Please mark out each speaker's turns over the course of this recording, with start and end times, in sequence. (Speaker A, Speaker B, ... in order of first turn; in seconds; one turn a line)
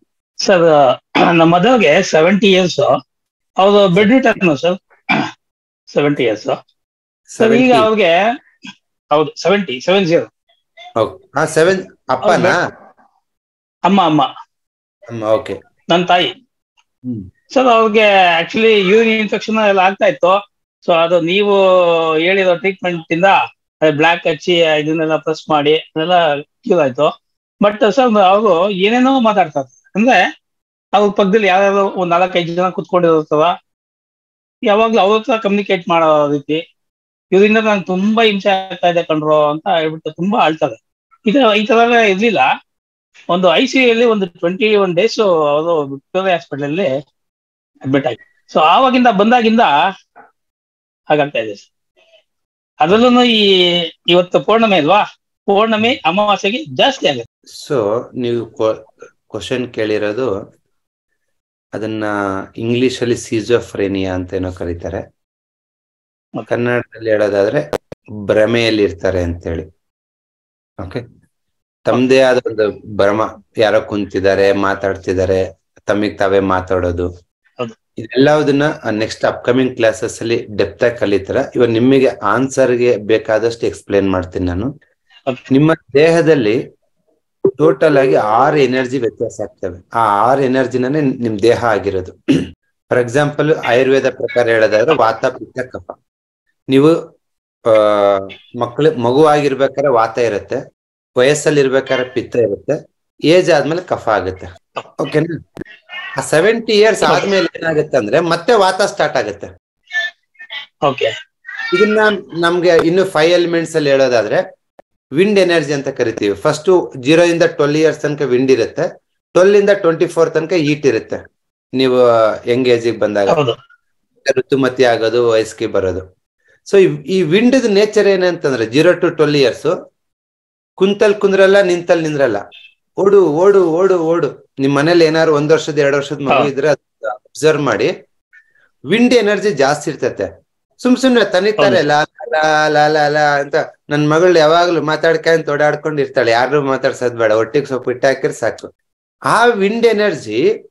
Speaker A: 0.4-0.8
Speaker A: 1.4-2.9
Speaker A: 3.6-4.8
Speaker A: 5.9-6.6
Speaker B: 7.3-7.9
Speaker A: 7.4-8.1
Speaker A: 9.1-10.3
Speaker B: 11.0-12.6
Speaker A: 12.3-12.6
Speaker A: 13.9-14.3
Speaker B: 15.1-15.6
Speaker A: 15.9-16.3
Speaker A: 17.5-27.1
Speaker A: 27.6-30.2
Speaker A: 30.9-33.5
Speaker A: 34.7-36.6
Speaker A: 37.3-42.5
Speaker A: 43.3-46.9
Speaker A: 47.9-49.7
Speaker A: 51.1-51.7
Speaker A: 52.8-53.4
Speaker A: 54.1-57.2
Speaker B: 57.6-58.8
Speaker B: 59.3-60.3
Speaker B: 61.8-62.1
Speaker B: 62.6-65.0
Speaker B: 66.5-67.6
Speaker B: 68.3-69.7
Speaker B: 71.9-77.1
Speaker B: 78.0-84.7
Speaker B: 85.5-86.6
Speaker B: 87.6-92.1
Speaker B: 93.0-95.9
Speaker B: 97.7-100.6
Speaker B: 101.2-102.8
Speaker B: 103.3-104.5
Speaker B: 105.0-105.3
Speaker B: 106.2-109.5
Speaker A: 107.1-107.3
Speaker A: 110.9-111.1
Speaker B: 111.7-114.4
Speaker B: 115.2-118.8
Speaker B: 119.4-121.2
Speaker B: 122.5-123.4
Speaker A: 123.3-123.6
Speaker B: 124.3-126.0
Speaker B: 126.7-129.7
Speaker B: 130.8-132.4
Speaker B: 133.0-137.9
Speaker B: 138.9-140.3
Speaker B: 140.8-148.7
Speaker B: 149.3-150.4